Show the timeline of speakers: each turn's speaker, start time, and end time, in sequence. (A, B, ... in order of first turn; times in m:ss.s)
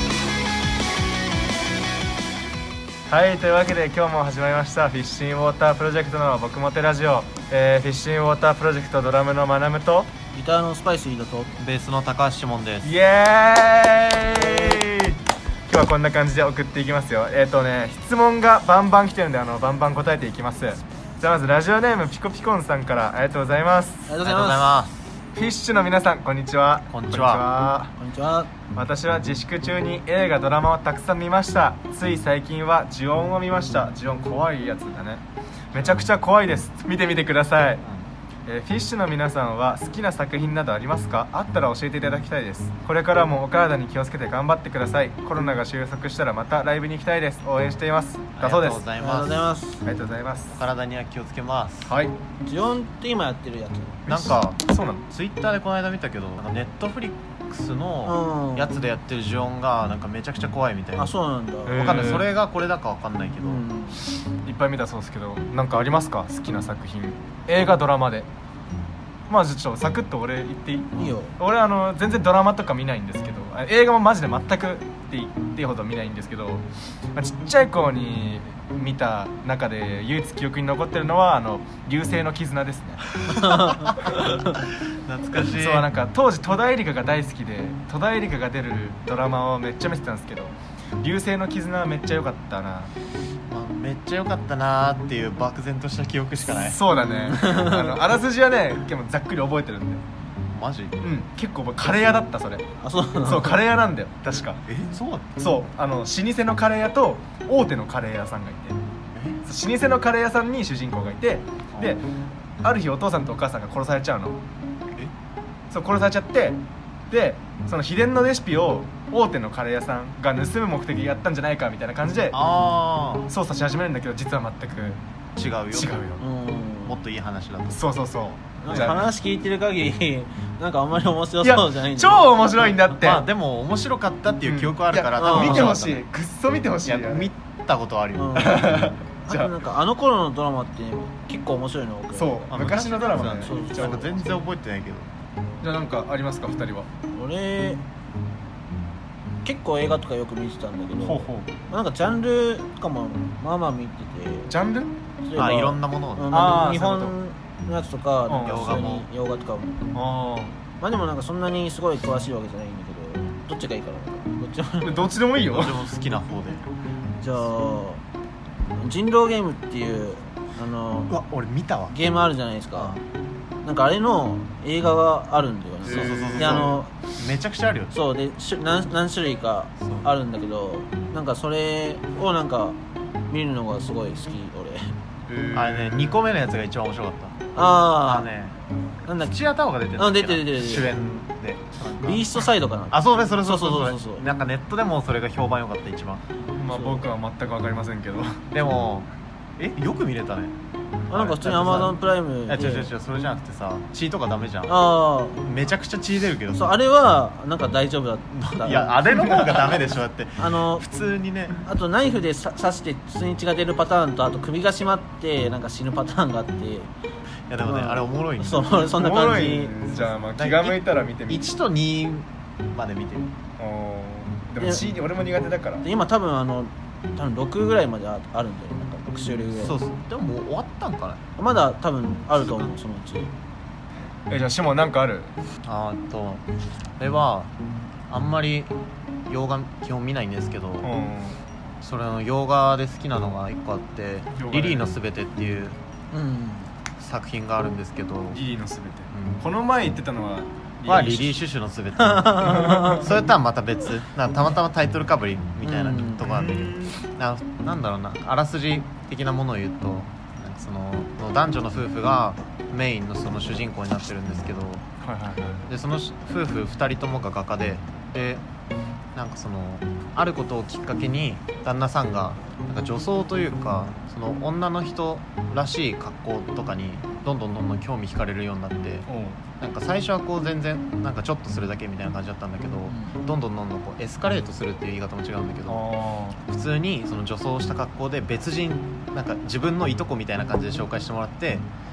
0:03.1-0:10.1 A
0:10.3-0:11.5 B
0:11.6-0:12.9 C
0:12.8-0:24.1 A
0:14.3-0:14.8 B
0:24.1-0:24.7 B
0:24.2-0:25.0 C
0:25.4-0:27.9 A
0:26.9-0:27.4 C
0:28.0-0:28.5 B
0:28.7-0:37.8 A
0:35.7-0:36.1 C
0:37.8-0:38.1 C
0:38.4-0:48.8 A
0:48.4-0:49.5 C
0:49.0-0:49.8 B
0:49.8-0:50.6 A
0:50.5-0:51.9 C
0:51.9-0:52.2 A
0:52.4-0:54.0 B
0:54.1-0:55.0 A
0:54.1-1:01.1 C
0:58.0-0:58.7 B
1:01.0-1:02.0 B
1:01.6-1:02.3 A
1:01.7-1:03.6 C
1:03.4-1:04.0 B
1:04.4-1:08.3 A
1:09.3-1:23.6 A
1:10.9-1:11.3 B
1:23.4-1:23.8 B
1:23.8-1:25.9 C
1:25.4-1:32.9 A
1:33.5-1:36.8 C
1:36.5-1:40.0 A
1:37.3-1:38.0 B
1:40.5-1:41.0 C
1:41.0-1:42.7 A
1:42.8-1:43.6 B
1:43.2-1:44.6 A
1:44.7-1:45.4 C
1:45.4-1:48.8 A
1:49.1-1:49.4 C
1:49.4-1:52.0 A
1:51.7-1:52.0 C
1:52.6-1:54.4 A
1:55.7-1:56.6 A
1:57.1-2:02.4 A
2:02.3-2:03.3 C
2:03.3-2:05.0 A
2:05.4-2:06.0 C
2:05.7-2:06.2 A
2:06.2-2:07.0 B
2:06.8-2:07.9 C
2:07.7-2:09.1 A
2:08.6-2:12.4 B
2:08.7-2:09.0 C
2:11.4-2:13.2 A
2:13.0-2:16.0 C
2:14.4-2:17.3 A
2:15.2-2:15.8 B
2:16.8-2:18.7 C
2:18.1-2:22.5 B
2:18.4-2:19.5 A
2:22.1-2:24.2 A
2:22.5-2:25.1 C
2:23.2-2:24.2 B
2:25.6-2:26.9 A
2:27.1-2:27.8 B
2:29.4-2:34.5 B
2:31.0-2:31.5 A
2:34.5-2:35.0 A
2:35.2-2:39.9 B
2:35.3-2:36.6 C
2:36.3-2:37.1 A
2:38.3-2:38.8 A
2:38.4-2:39.1 C
2:39.9-2:40.5 A
2:40.8-2:45.1 B
2:44.8-2:45.8 A
2:45.3-2:46.7 C
2:47.2-2:48.0 B
2:48.7-2:51.1 B
2:51.1-2:51.9 C
2:51.9-2:53.0 B
2:52.7-2:53.0 C
2:53.6-2:56.9 B
2:55.8-2:56.7 A
2:55.8-2:57.9 C
2:57.9-3:02.8 B
3:03.3-3:04.9 B
3:05.3-3:06.2 A
3:05.5-3:08.6 C
3:07.5-3:08.3 B
3:09.0-3:09.3 B
3:09.2-3:16.2 C
3:10.0-3:11.0 B
3:12.0-3:14.2 B
3:16.6-3:18.4 A
3:16.7-3:17.0 B
3:18.5-3:20.6 C
3:21.1-3:24.8 C
3:21.1-3:22.9 B
3:24.7-3:25.4 B
3:25.4-3:26.7 C
3:26.5-3:29.6 B
3:28.3-3:31.6 C
3:30.4-3:30.9 B
3:31.6-3:36.9 B
3:37.5-3:38.8 C
3:37.6-3:39.7 B
3:38.8-3:41.5 A
3:40.4-3:43.3 C
3:43.6-3:45.8 A
3:44.6-3:44.9 B
3:45.8-3:49.8 B
3:49.6-3:51.2 C
3:51.4-3:53.3 B
3:52.4-3:52.7 C
3:54.3-3:55.3 A
3:55.6-3:56.4 C
3:57.0-3:57.5 C
3:58.1-3:58.7 C
3:59.3-4:00.9 C
4:00.8-4:01.4 A
4:01.8-4:05.8 C
4:04.3-4:04.9 A
4:06.1-4:06.7 B
4:07.0-4:08.4 C
4:08.3-4:11.4 A
4:09.1-4:09.4 C
4:10.8-4:24.8 C
4:12.0-4:13.0 B
4:12.4-4:13.1 A
4:15.6-4:16.2 B
4:16.2-4:17.0 A
4:25.0-4:25.6 A
4:25.6-4:28.4 C
4:29.1-4:39.1 C
4:39.1-4:39.4 A
4:39.6-4:45.8 C
4:42.9-4:43.2 B
4:45.7-4:46.4 A
4:46.4-4:51.7 C